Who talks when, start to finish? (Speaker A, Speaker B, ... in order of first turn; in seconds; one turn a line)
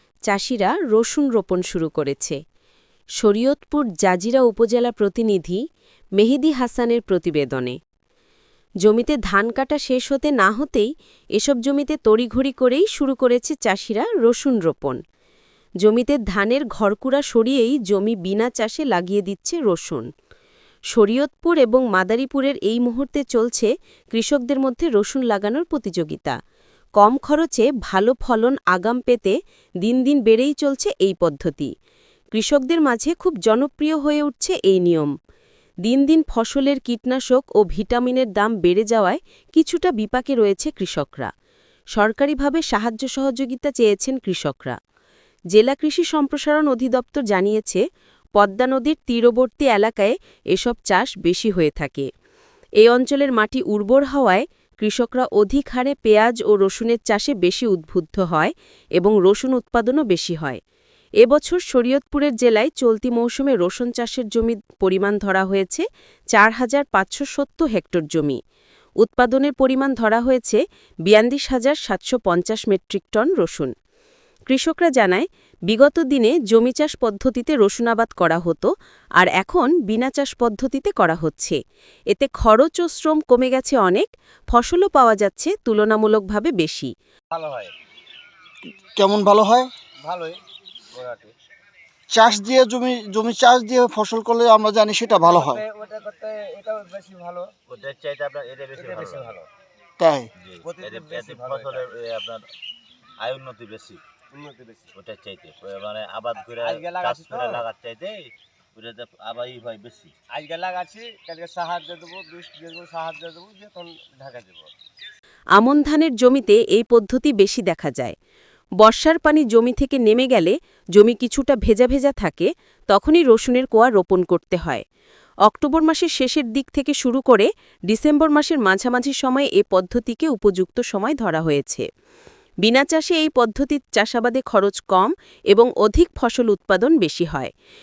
Speaker A: 0.3-2.4
Speaker A: 3.2-5.6
Speaker A: 6.2-7.8
Speaker A: 8.8-15.0
Speaker A: 15.8-20.1
Speaker A: 20.9-26.4
Speaker A: 27.0-31.7
Speaker A: 32.3-35.1
Speaker A: 35.8-41.3
Speaker A: 41.9-44.8
Speaker A: 45.5-47.8
Speaker A: 48.4-52.1
Speaker A: 52.8-60.6
Speaker A: 61.2-68.4
Speaker A: 69.0-73.7
Speaker A: 74.5-81.6
Speaker A: 82.1-86.9
Speaker B: 87.3-87.7
Speaker C: 88.8-89.7
Speaker B: 90.0-90.4
Speaker B: 90.9-91.3
Speaker C: 92.1-95.6
Speaker B: 95.2-97.5
Speaker D: 97.7-99.3
Speaker B: 98.7-99.5
Speaker C: 100.0-100.3
Speaker D: 100.4-102.4
Speaker B: 100.6-101.9
Speaker D: 103.2-104.0
Speaker B: 104.3-104.9
Speaker D: 104.9-108.2
Speaker B: 106.4-107.7
Speaker D: 108.8-110.1
Speaker B: 110.3-114.7
Speaker A: 115.5-118.2
Speaker A: 118.8-124.8
Speaker A: 125.5-131.8
Speaker A: 132.6-137.5